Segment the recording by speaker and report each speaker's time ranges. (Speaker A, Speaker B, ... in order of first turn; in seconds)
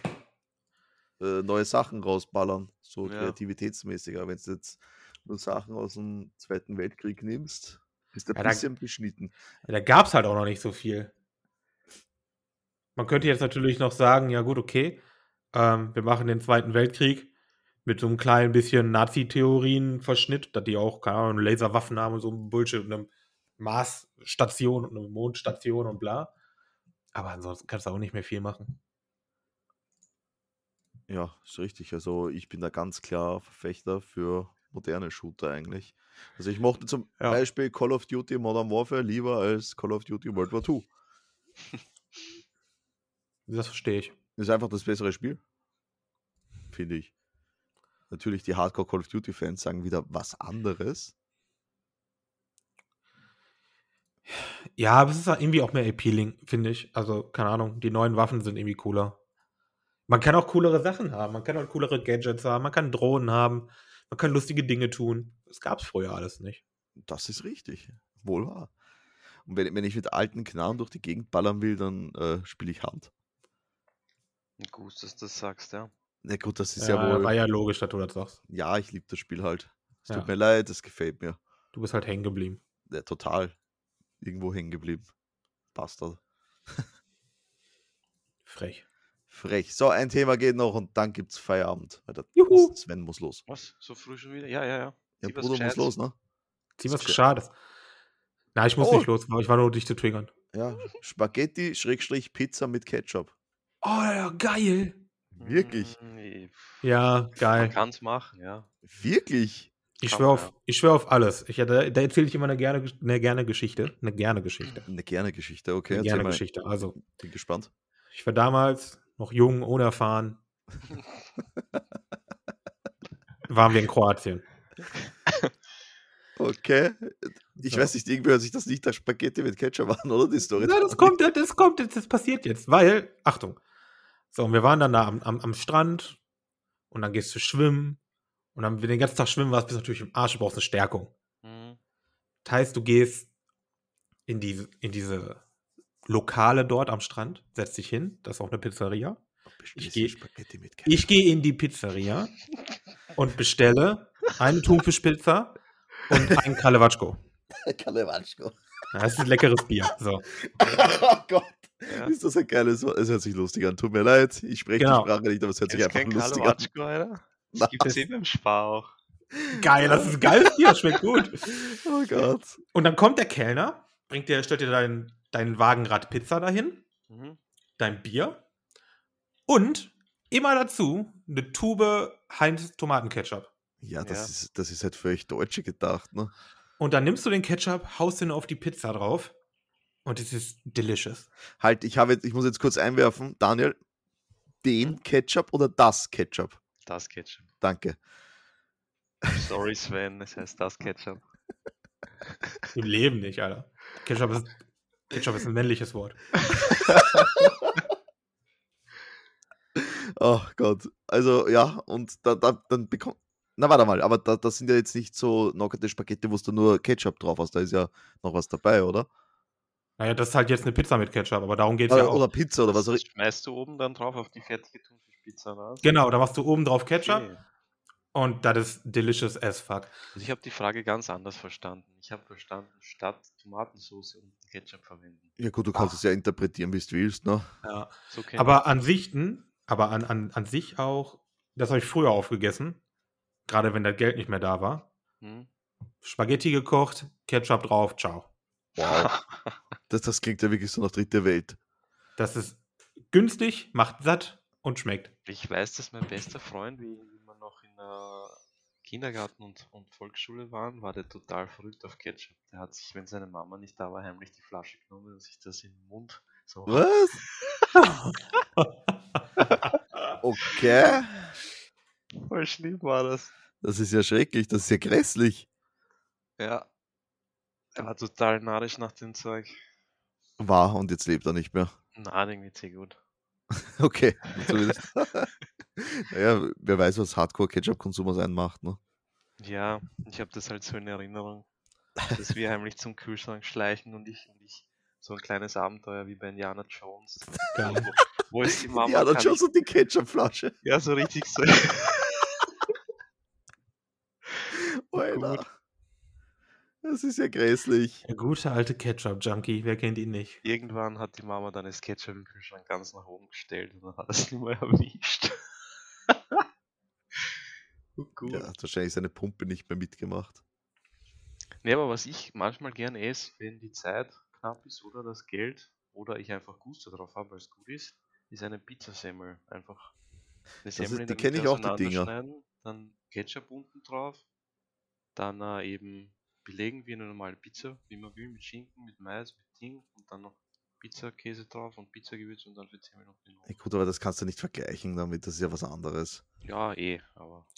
Speaker A: 1.2-9.3, 31.1-40.9, 44.4-45.4, 46.7-47.1, 48.1-51.1, 67.0-68.7, 69.5-73.1, 76.2-77.3, 78.5-81.4, 82.9-83.6, 84.2-85.1, 85.7-86.9, 89.3-93.4, 95.2-96.2, 96.9-97.2, 98.8-99.1, 100.5-103.3, 105.3-106.0, 108.8-109.7, 114.8-116.4, 117.0-117.7, 126.4-131.2, 149.6-151.1, 157.6-158.6, 160.4-166.7, 169.4-170.2, 171.5-172.6, 183.8-186.3, 191.6-193.8, 194.6-196.6, 197.6-198.0, 207.3-207.7, 209.8-219.1, 221.9-223.0, 235.4-237.5, 248.8-249.1, 249.9-251.6, 266.7-267.2, 270.2-271.4, 273.6-275.5, 280.4-281.7, 283.6-288.8, 298.5-300.6, 304.5-305.4, 306.8-308.0, 318.3-320.4, 330.7-332.1, 343.5-346.2
Speaker B: 3.0-3.4, 74.6-75.9, 93.5-95.9, 105.4-106.8, 107.4-108.7, 110.0-110.5, 141.4-141.8, 161.9-162.1, 165.7-168.9, 177.1-177.4, 184.0-184.3, 196.9-197.5, 199.3-201.2, 206.8-207.3, 222.7-226.0, 227.0-227.4, 230.2-235.3, 238.1-238.6, 245.2-245.5, 248.8-249.6, 255.3-266.9, 267.4-267.7, 269.4-269.8, 272.1-273.3, 276.4-276.7, 277.8-279.6, 282.0-283.0, 284.4-284.8, 289.4-291.5, 292.0-299.4, 300.6-302.4, 304.9-305.4, 310.4-315.4, 316.1-316.4, 318.0-318.5, 321.6-329.9, 330.6-334.2, 335.2-343.5, 346.4-347.5
Speaker C: 8.4-8.7, 9.7-11.1, 13.0-15.0, 15.5-17.3, 17.9-26.3, 27.1-28.8, 43.5-44.1, 54.3-59.2, 60.1-66.6, 76.8-78.4, 81.7-82.6, 88.5-88.8, 92.3-92.8, 96.8-97.5, 98.5-100.3, 103.8-105.0, 106.8-107.8, 110.0-114.8, 115.9-117.0, 118.1-120.4, 123.5-124.5, 127.6-127.9, 130.6-133.6, 134.3-136.2, 136.9-138.0, 138.6-141.1, 142.4-143.3, 144.3-145.4, 146.1-149.2, 149.8-150.2, 150.9-152.3, 153.2-155.6, 156.1-157.2, 158.9-160.3, 164.8-165.1, 169.5-171.6, 172.7-176.8, 177.8-178.4, 179.5-183.5, 186.8-189.3, 190.1-191.3, 202.7-206.3, 220.0-222.3, 225.8-227.3, 228.1-230.0, 237.6-242.8, 243.5-244.9, 246.0-248.3, 252.2-255.1, 267.8-268.7, 297.5-297.9, 308.1-310.4